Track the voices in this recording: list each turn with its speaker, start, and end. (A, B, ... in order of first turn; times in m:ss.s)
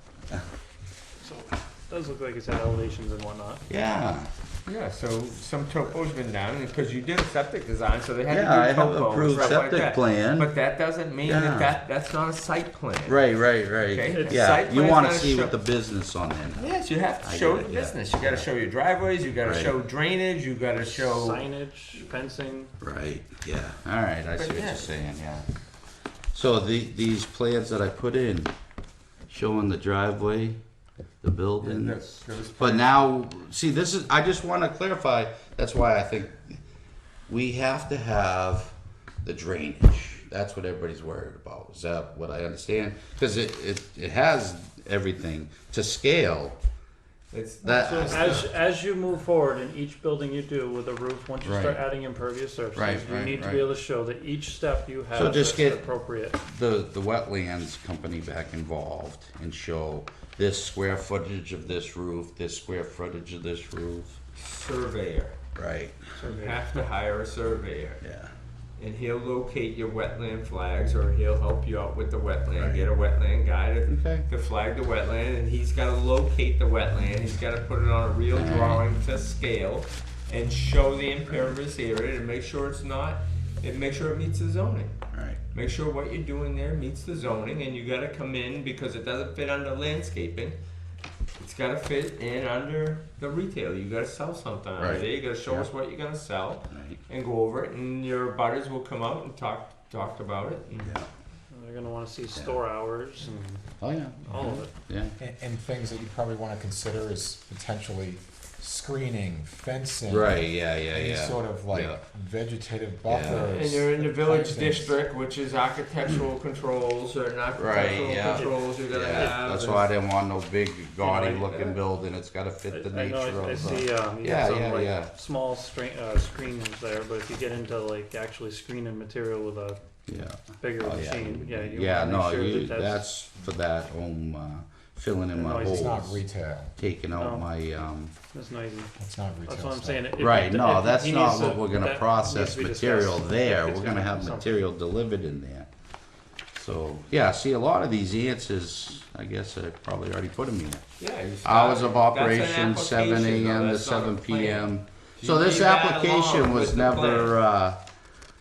0:01.2-0:03.6 A
0:03.7-0:04.3 B
0:04.6-0:15.6 C
0:08.3-0:10.5 B
0:09.3-0:09.6 A
0:11.2-0:11.8 B
0:13.1-0:18.4 B
0:14.1-0:14.6 A
0:16.5-0:21.5 C
0:19.4-0:19.7 B
0:20.9-0:22.7 A
0:22.8-0:25.4 B
0:24.3-0:25.0 C
0:26.3-0:28.5 B
0:29.3-0:30.6 B
0:31.2-0:32.0 B
0:31.6-0:33.1 C
0:32.6-0:36.6 B
0:37.3-0:46.6 B
0:47.3-0:48.5 C
0:47.6-0:48.4 B
0:47.8-0:56.4 A
0:51.4-0:51.8 B
0:52.7-0:53.7 B
0:55.1-0:55.8 B
0:56.4-1:04.2 B
1:04.4-1:05.4 C
1:05.5-1:06.1 B
1:06.2-1:06.8 A
1:06.2-1:08.0 C
1:08.0-1:08.3 B
1:08.8-1:30.6 C
1:12.6-1:12.9 B
1:13.9-1:14.2 B
1:18.3-1:18.8 B
1:25.1-1:25.4 B
1:31.4-1:40.9 C
1:34.8-1:35.7 B
1:36.7-1:37.0 B
1:40.8-1:41.1 B
1:41.5-1:43.6 A
1:42.3-1:42.6 B
1:43.8-1:45.1 B
1:44.2-1:44.7 A
1:45.2-1:54.9 D
1:50.1-1:52.0 B
1:53.1-1:53.5 B
1:53.3-1:59.9 C
1:57.6-2:05.1 B
1:58.2-1:59.4 A
2:01.0-2:01.8 A
2:01.0-2:01.6 C
2:02.7-2:09.8 A
2:10.1-2:16.2 B
2:10.6-2:13.1 A
2:15.3-2:16.1 A
2:15.6-2:16.7 D
2:16.8-2:18.1 B
2:17.2-2:17.5 A
2:18.3-2:18.9 A
2:19.0-2:20.1 D
2:19.4-2:24.6 A
2:20.2-2:25.7 B
2:26.5-2:30.8 B
2:31.0-2:37.4 C
2:31.4-2:37.8 B